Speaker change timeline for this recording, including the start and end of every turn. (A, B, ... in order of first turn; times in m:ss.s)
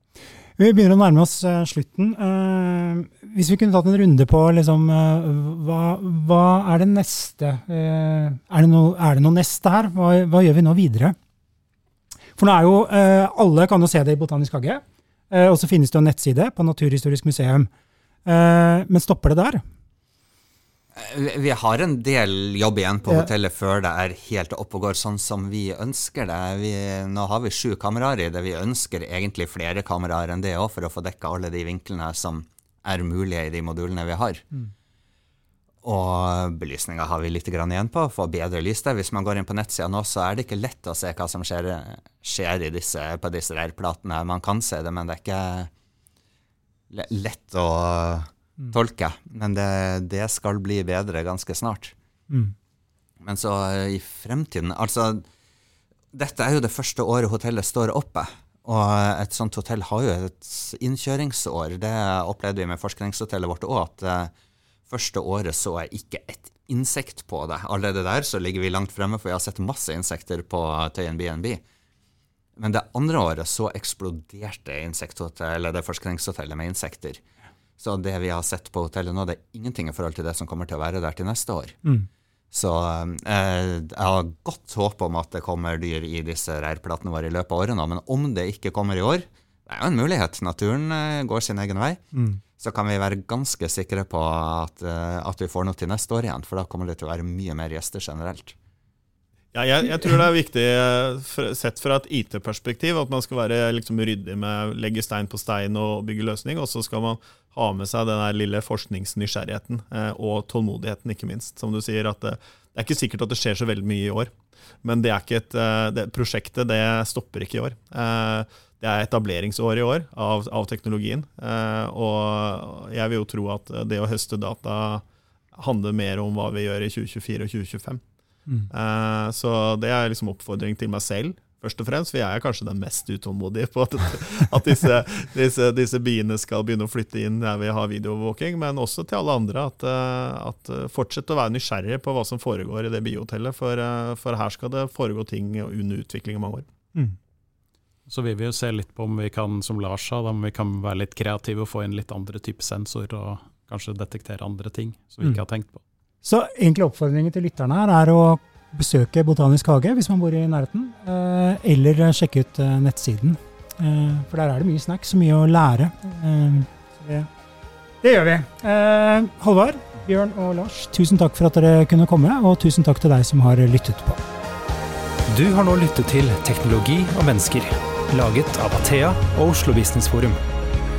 0:00.6-0:11.1 A
0:12.4-0:17.7 A
0:18.2-0:19.6 A
0:20.9-0:34.4 B
0:35.8-0:45.7 B
0:46.9-0:51.9 B
0:52.3-0:52.5 A
0:53.2-0:55.2 B
0:56.1-1:04.3 B
1:04.9-1:11.6 B
1:12.6-1:17.2 B
1:17.8-1:21.8 B
1:22.5-1:32.0 B
1:32.1-1:32.4 A
1:32.6-1:38.6 B
1:39.5-2:08.0 C
2:08.7-2:26.7 C
2:28.1-2:35.8 D
2:36.2-2:47.3 A
2:48.0-2:54.2 A
2:55.3-3:00.4 E